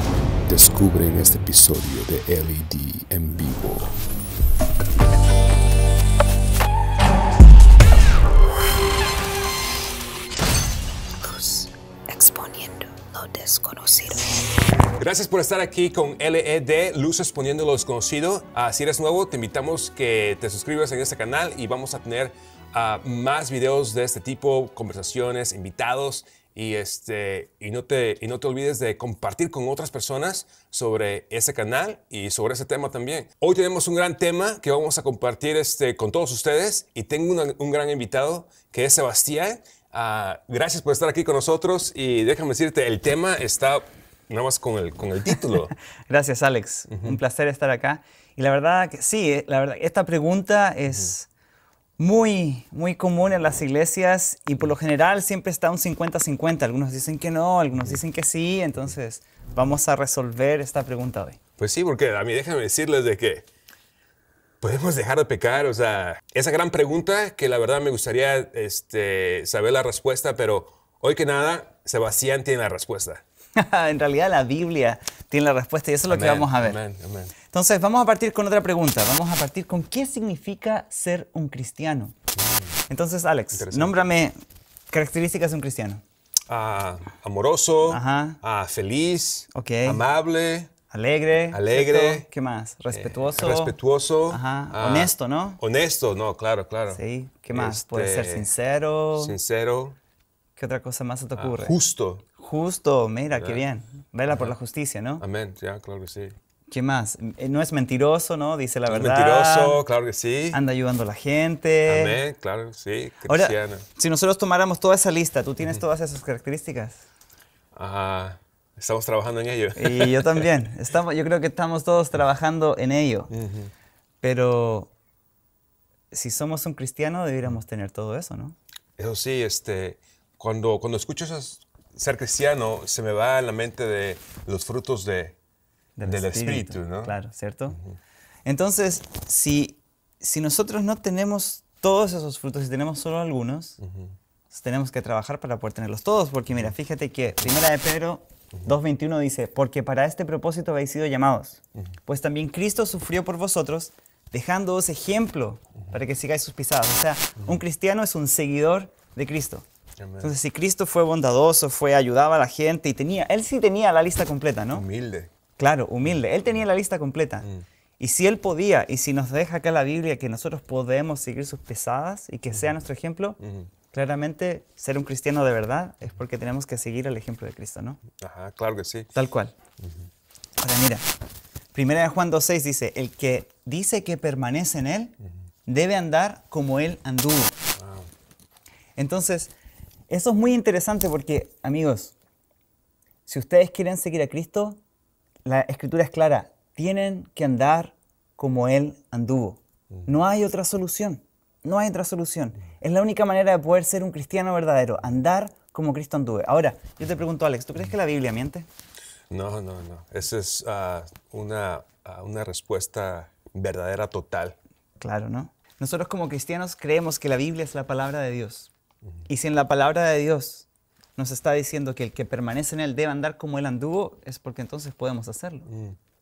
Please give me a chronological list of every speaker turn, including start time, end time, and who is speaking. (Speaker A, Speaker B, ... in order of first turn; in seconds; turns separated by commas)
Speaker A: 0.5-4.0, Speaker B: 11.4-14.2, Speaker C: 15.0-45.8, Speaker B: 46.1-51.3, Speaker C: 46.9-47.2, Speaker B: 52.0-61.4, Speaker C: 61.6-63.5, Speaker C: 64.6-73.2, Speaker B: 73.6-76.8, Speaker C: 76.1-77.3, Speaker B: 77.5-82.2, Speaker C: 82.4-82.8, Speaker B: 82.9-84.4, Speaker C: 83.5-84.0, Speaker B: 84.9-86.0, Speaker C: 86.5-90.7, Speaker B: 87.9-88.4, Speaker B: 89.5-90.0, Speaker B: 90.9-93.8, Speaker C: 91.5-92.3, Speaker C: 92.9-98.5, Speaker B: 94.3-95.6, Speaker B: 96.9-99.4, Speaker C: 99.2-100.0, Speaker B: 100.6-101.8, Speaker C: 101.4-102.3, Speaker B: 102.4-105.2, Speaker C: 103.3-103.6, Speaker C: 104.3-104.5, Speaker C: 105.2-106.4, Speaker B: 106.7-109.8, Speaker C: 108.9-110.6, Speaker B: 110.5-112.2, Speaker C: 111.8-113.9, Speaker B: 113.3-117.0, Speaker C: 117.7-120.5, Speaker B: 119.8-123.3, Speaker C: 123.3-123.7, Speaker B: 124.2-124.9, Speaker B: 126.1-128.6, Speaker C: 129.0-135.4, Speaker B: 136.0-137.8, Speaker C: 136.1-137.2, Speaker C: 137.7-138.0, Speaker B: 138.4-143.8, Speaker C: 143.8-144.1, Speaker B: 144.5-159.7, Speaker C: 160.0-160.3, Speaker B: 160.2-164.8, Speaker C: 164.7-165.3, Speaker B: 165.6-167.5, Speaker B: 168.0-173.4, Speaker C: 173.4-173.7, Speaker B: 173.9-178.0, Speaker C: 178.2-179.1, Speaker B: 179.2-179.5, Speaker B: 180.6-181.0, Speaker B: 181.7-187.6, Speaker C: 187.8-188.1, Speaker B: 189.0-189.5, Speaker B: 190.1-192.1, Speaker B: 193.3-194.8, Speaker B: 195.4-208.7, Speaker C: 209.3-214.6, Speaker B: 215.0-218.7, Speaker B: 219.3-225.7, Speaker C: 225.7-226.0